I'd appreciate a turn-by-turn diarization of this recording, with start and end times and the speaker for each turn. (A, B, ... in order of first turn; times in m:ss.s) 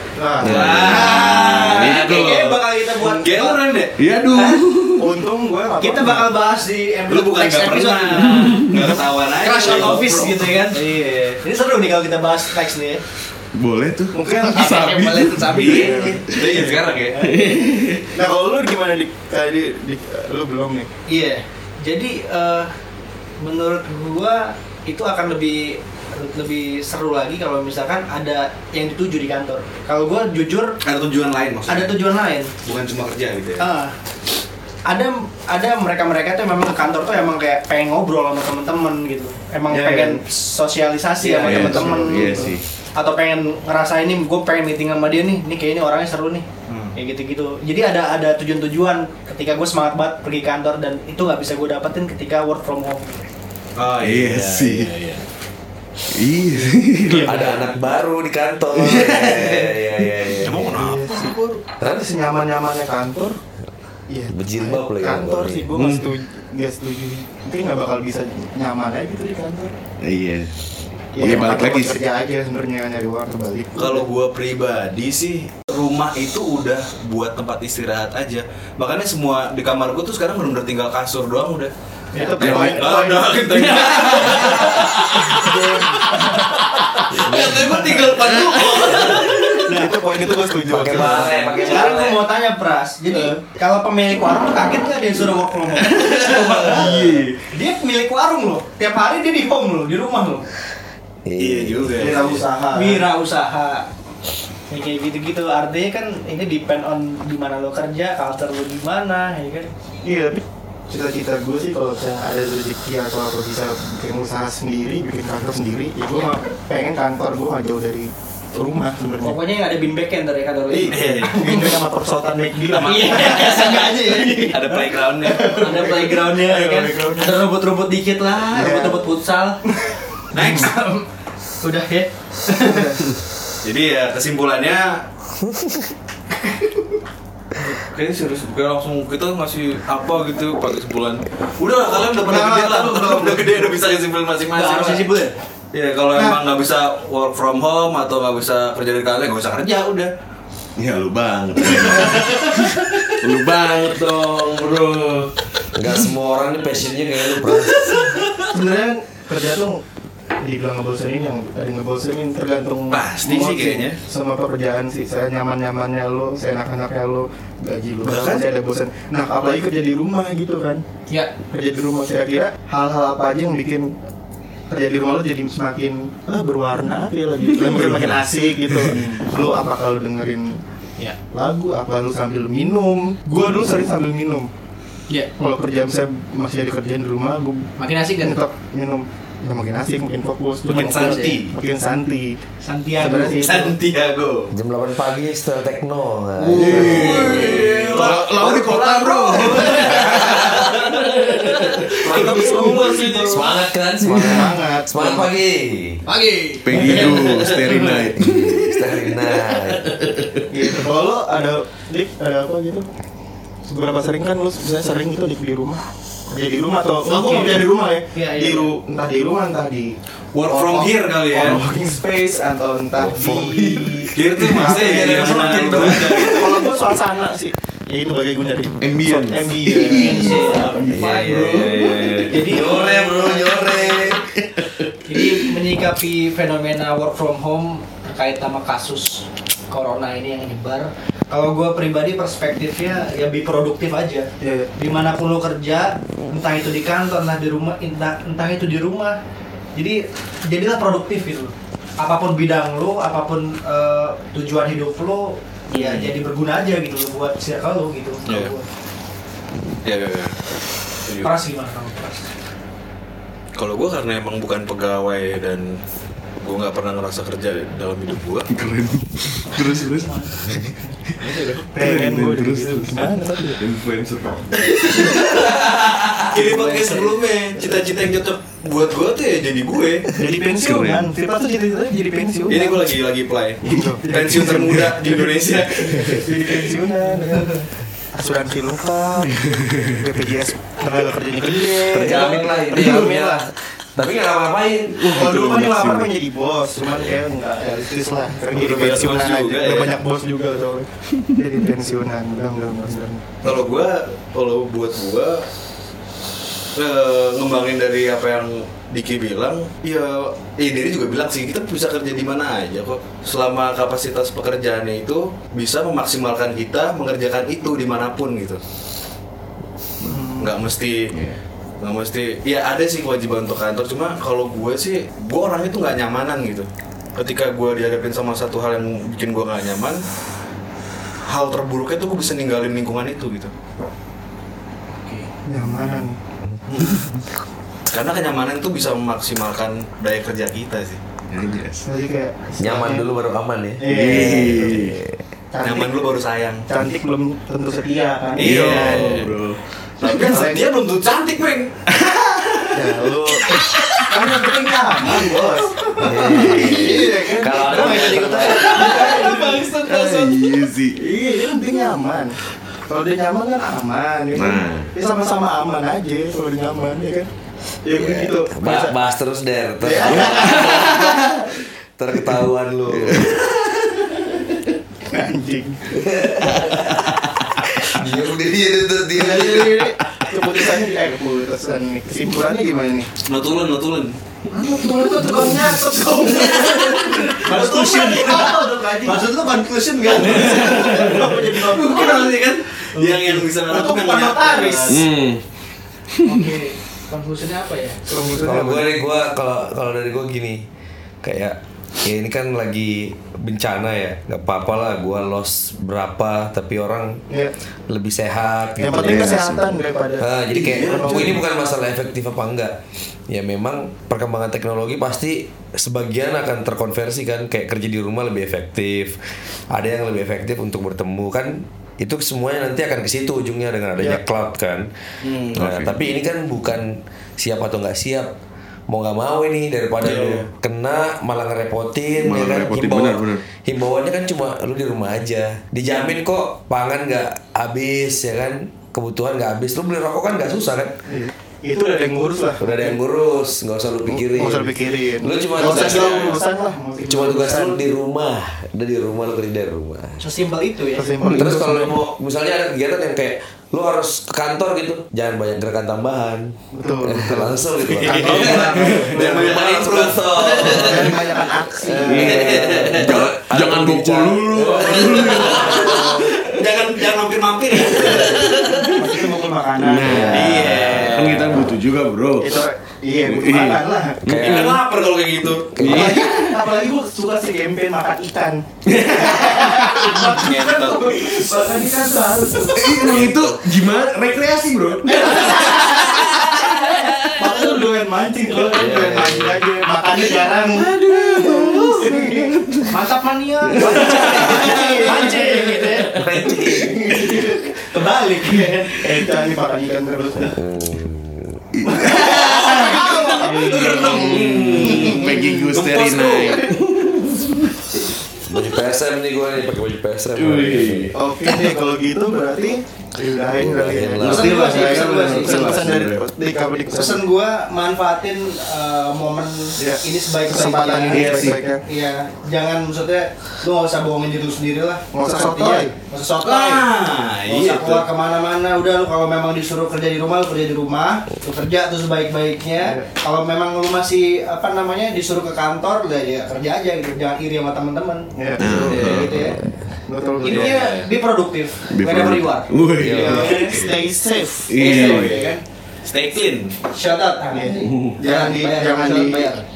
0:00.2-0:00.9 A
0:00.4-0:01.1 B
0:00.4-0:04.0 C
0:00.8-0:03.6 D
0:01.6-0:02.4 E
0:04.0-0:05.1 E
0:04.3-0:04.6 D
0:05.0-0:06.3 A
0:05.8-0:08.7 D
0:07.1-0:11.4 C
0:08.5-0:08.8 E
0:09.4-0:13.0 D
0:13.5-0:18.1 E
0:14.1-0:14.8 A
0:14.4-0:16.3 D
0:15.6-0:17.3 C
0:15.7-0:16.1 A
0:17.2-0:17.6 D
0:18.1-0:20.9 A
0:21.1-0:22.7 D
0:23.4-0:30.8 D
0:30.8-0:32.0 C
0:31.7-0:32.5 D
0:32.6-0:33.7 C
0:33.6-0:33.9 D
0:34.9-0:53.2 D
0:39.7-0:40.2 A
0:39.8-0:40.1 C
0:41.2-0:42.0 C
0:41.4-0:42.6 E
0:41.5-0:42.6 A
0:46.7-0:47.0 C
0:53.8-0:55.2 C
0:54.0-0:55.0 E
0:56.1-0:57.5 E
0:57.2-0:57.7 A
0:57.2-1:00.8 B
0:58.8-0:59.7 E
1:00.4-1:01.6 C
1:00.7-1:03.4 A
1:01.8-1:02.0 B
1:04.1-1:09.8 A
1:04.3-1:05.7 B
1:05.8-1:06.1 E
1:10.0-1:10.6 E
1:11.1-1:12.0 E
1:11.1-1:14.1 A
1:13.8-1:29.8 C
1:22.1-1:24.3 A
1:22.4-1:22.8 E
1:24.0-1:25.6 D
1:25.4-1:26.5 A
1:27.1-1:28.1 B
1:28.7-1:29.9 D
1:29.6-1:31.6 A
1:30.7-1:32.2 B
1:31.5-1:40.4 D
1:36.0-1:37.2 C
1:36.6-1:37.4 E
1:41.2-1:42.3 B
1:41.4-1:42.5 C
1:42.0-1:43.1 A
1:42.7-1:43.9 D
1:44.7-1:49.7 D
1:50.0-1:59.4 A
1:59.2-2:01.8 D
2:00.7-2:03.9 A
2:00.9-2:01.7 C
2:02.8-2:06.0 C
2:02.8-2:09.6 D
2:04.6-2:07.4 A
2:08.5-2:09.0 A
2:09.7-2:10.7 A
2:10.3-2:10.8 C
2:10.4-2:11.1 D
2:11.6-2:13.0 D
2:12.6-2:13.0 A
2:13.6-2:15.1 C
2:17.6-2:25.1 C
2:22.0-2:23.6 A
2:24.5-2:25.4 D
2:25.7-2:30.1 C
2:26.1-2:26.4 A
2:30.8-2:35.3 E
2:31.9-2:32.4 C
2:35.7-2:38.2 B
2:37.5-2:38.1 E
2:38.4-2:39.8 A
2:40.4-2:50.8 A
2:42.9-2:44.0 C
2:48.0-2:48.4 C
2:51.5-2:53.9 A
2:54.7-3:00.6 A
2:57.6-2:58.1 E
2:58.7-2:59.1 E
3:01.3-3:04.5 A
3:05.4-3:12.4 A
3:07.8-3:08.4 D
3:10.6-3:11.5 C
3:10.9-3:11.4 D
3:12.6-3:13.5 D
3:13.0-3:13.8 A
3:13.3-3:14.5 C
3:14.5-3:17.8 B
3:16.4-3:20.5 E
3:16.6-3:21.3 C
3:17.0-3:18.2 D
3:19.2-3:23.3 D
3:21.8-3:23.5 C
3:22.0-3:23.4 A
3:23.3-3:26.0 B
3:24.0-3:25.3 A
3:26.0-3:28.0 D
3:26.6-3:29.1 E
3:28.2-3:30.2 B
3:30.1-3:30.5 E
3:30.5-3:32.9 A
3:33.6-3:40.0 A
3:37.0-3:38.7 D
3:40.3-3:41.6 C
3:40.5-3:50.4 A
3:43.2-3:44.1 E
3:44.1-3:46.6 C
3:44.7-3:46.4 B
3:45.3-3:46.2 E
3:48.8-3:52.3 E
3:49.9-3:51.3 D
3:50.4-3:52.2 C
3:51.0-3:54.3 B
3:52.2-3:54.2 D
3:54.4-3:55.4 E
3:55.0-4:09.2 D
4:04.4-4:04.7 A
4:09.8-4:18.7 D
4:15.7-4:16.2 C
4:18.3-4:18.5 C
4:19.8-4:20.4 C
4:21.0-4:21.3 C
4:21.2-4:22.3 D
4:23.6-4:25.8 C
4:26.4-4:28.5 C
4:28.5-4:31.2 E
4:30.0-4:30.4 D
4:31.2-4:31.7 C
4:31.7-4:33.6 A
4:31.8-4:35.2 E
4:34.8-4:40.4 C
4:36.3-4:37.2 D
4:40.1-4:42.9 A
4:40.6-4:41.1 E
4:42.5-4:46.4 C
4:43.6-4:45.2 A
4:45.9-4:53.5 A
4:49.7-4:50.0 E
4:51.7-4:55.2 B
4:54.9-4:56.1 E
4:55.1-5:03.4 A
4:56.9-4:57.1 E
4:58.5-4:59.9 C
5:03.4-5:05.5 C
5:06.8-5:18.6 C
5:20.0-5:20.6 A
5:20.3-5:21.1 C
5:21.1-5:21.4 E
5:21.8-5:30.0 C
5:31.2-5:33.5 C
5:35.0-5:35.3 D
5:35.4-5:36.2 A
5:36.7-5:37.0 C
5:36.9-5:37.2 E
5:37.9-5:41.0 C
5:41.3-5:41.9 E
5:41.8-5:43.1 A
5:42.6-5:45.2 B
5:43.8-5:44.8 A
5:43.8-5:45.0 E
5:45.5-5:46.1 A
5:45.6-5:46.7 C
5:46.7-5:49.4 A
5:48.4-5:49.4 C
5:48.4-5:49.6 E
5:50.0-5:52.8 C
5:50.1-5:50.7 A
5:52.7-6:00.3 A
5:53.5-5:54.1 E
5:56.0-5:59.1 B
5:56.3-5:56.8 E
5:56.8-6:00.4 C
5:59.7-6:01.0 E
6:00.9-6:02.4 A
6:02.9-6:07.3 A
6:04.4-6:04.9 E
6:07.8-6:09.0 A
6:07.9-6:11.3 B
6:09.8-6:11.4 A
6:10.3-6:10.8 E
6:12.0-6:13.5 B
6:13.2-6:13.4 E
6:15.0-6:16.6 A
6:16.0-6:20.0 B
6:19.1-6:23.1 A
6:23.3-6:24.2 C
6:24.5-6:29.3 A
6:26.0-6:28.5 C
6:27.3-6:32.1 D
6:29.2-6:35.1 C
6:30.2-6:32.3 A
6:33.1-6:35.0 A
6:33.7-6:34.9 D
6:34.9-6:35.4 E
6:36.2-6:38.0 D
6:38.1-6:39.0 A
6:38.4-6:40.6 B
6:41.2-6:47.2 B
6:47.3-6:47.5 A
6:47.9-6:49.7 B
6:48.8-6:51.4 A
6:48.8-6:49.7 E
6:50.2-6:52.8 B
6:50.6-6:51.4 C
6:53.3-6:59.2 B
6:59.7-7:04.9 B
7:05.2-7:05.7 C
7:05.5-7:08.3 B
7:05.6-7:06.0 E
7:08.9-7:21.0 B
7:10.0-7:10.5 C
7:12.2-7:13.4 E
7:21.1-7:23.0 A
7:22.6-7:26.4 B
7:24.1-7:27.8 A
7:25.6-7:26.4 C
7:27.0-7:30.2 B
7:30.2-7:31.1 D
7:30.9-7:32.0 A
7:31.3-7:41.3 B
7:36.7-7:39.6 A
7:38.0-7:41.1 C
7:40.4-7:42.7 A
7:41.9-7:46.2 B
7:42.0-7:43.3 C
7:42.0-7:46.1 E
7:44.7-7:48.8 C
7:48.0-7:48.9 E
7:48.2-7:48.6 B
7:48.8-7:51.0 A
7:49.8-7:52.5 E
7:50.0-7:51.0 B
7:50.3-7:51.5 C
7:52.4-7:54.2 A
7:53.2-7:54.8 E
7:54.3-7:54.8 B
7:54.3-7:56.0 C
7:55.7-7:56.2 B
7:55.8-7:56.6 E
7:55.8-8:03.2 A
7:58.9-7:59.9 E
7:59.9-8:01.3 C
8:02.7-8:06.2 E
8:03.0-8:03.6 B
8:05.1-8:06.8 A
8:07.3-8:12.6 A
8:08.7-8:09.6 B
8:10.7-8:13.0 E
8:12.8-8:16.2 D
8:13.8-8:17.7 A
8:16.1-8:17.4 B
8:17.9-8:19.2 D
8:18.9-8:20.6 A
8:20.5-8:21.6 B
8:21.8-8:28.0 E
8:21.9-8:24.4 D
8:22.1-8:26.7 A
8:22.4-8:26.6 C
8:24.6-8:24.9 B
8:28.5-8:31.1 B
8:30.4-8:31.2 E
8:31.2-8:37.2 A
8:33.6-8:34.7 B
8:34.2-8:36.3 E
8:34.3-8:35.8 D
8:36.9-8:46.9 D
8:39.8-8:41.8 A
8:41.1-8:41.6 E
8:45.1-8:45.9 A
8:46.4-8:48.1 C
8:47.5-8:59.6 D
8:52.8-8:53.1 A
8:58.4-8:59.1 A
8:58.6-8:59.5 E
8:58.7-8:59.5 C
9:00.1-9:00.9 A
9:00.4-9:03.8 D
9:00.4-9:01.1 C
9:01.9-9:04.0 E
9:03.0-9:03.6 B
9:03.1-9:04.9 A
9:04.7-9:05.4 E
9:04.8-9:05.6 D
9:04.8-9:06.7 C
9:06.9-9:09.6 D
9:07.5-9:09.5 A
9:07.9-9:08.2 E